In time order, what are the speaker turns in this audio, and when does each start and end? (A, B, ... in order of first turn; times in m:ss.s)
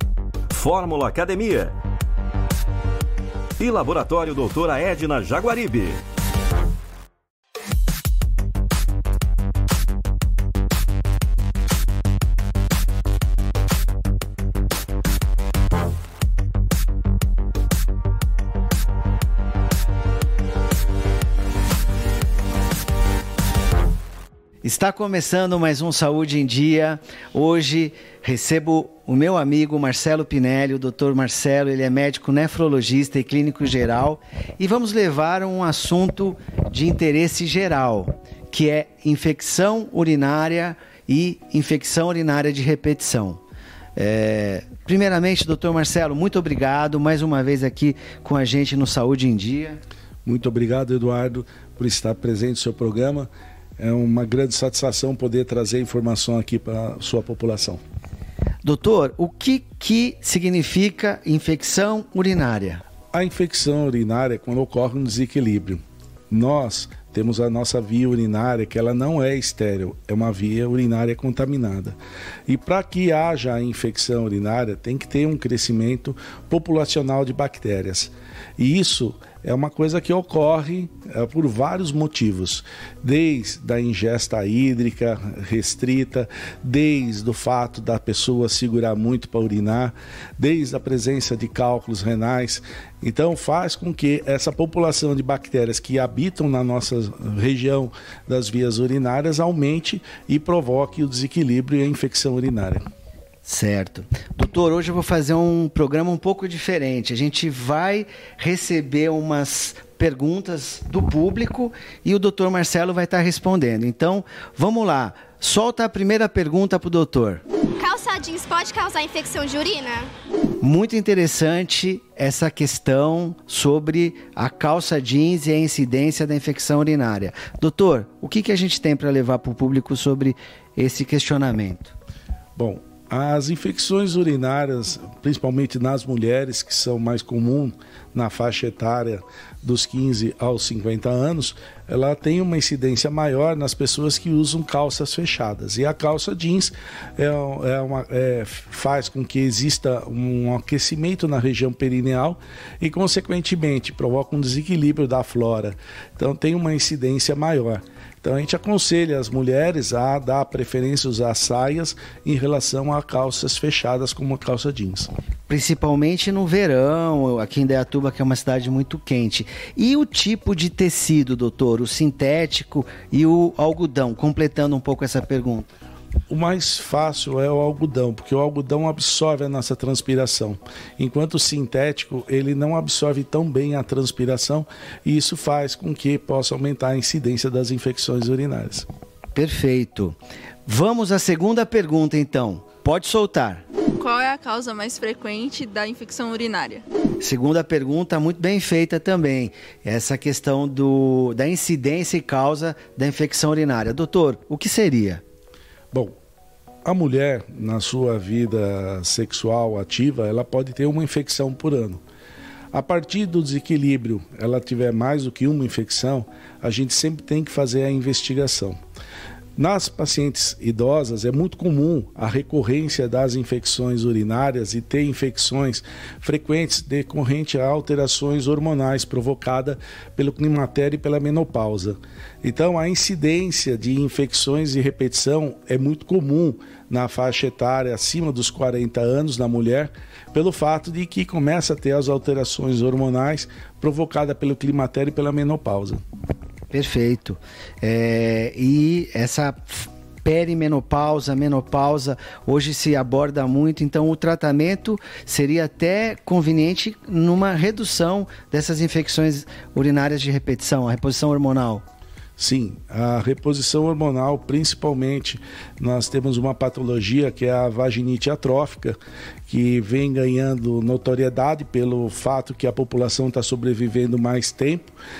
0:00.5-0:01.8 A
0:03.6-0:06.0 A
0:24.6-0:43.4 B
0:44.0-0:49.8 B
0:50.2-0:57.8 C
0:58.6-1:02.8 B
1:03.1-1:12.0 C
1:12.5-1:42.8 C
1:43.4-1:57.4 B
1:57.8-2:00.1 D
2:00.6-2:12.0 B
2:12.6-2:45.1 C
2:45.5-2:55.7 B
2:56.3-3:08.9 C
3:09.4-3:13.6 B
3:14.0-3:16.9 E
3:17.2-3:25.2 B
3:26.8-3:32.0 C
3:32.7-3:38.8 C
3:39.6-4:06.0 C
4:06.7-4:21.8 B
4:22.4-4:34.9 C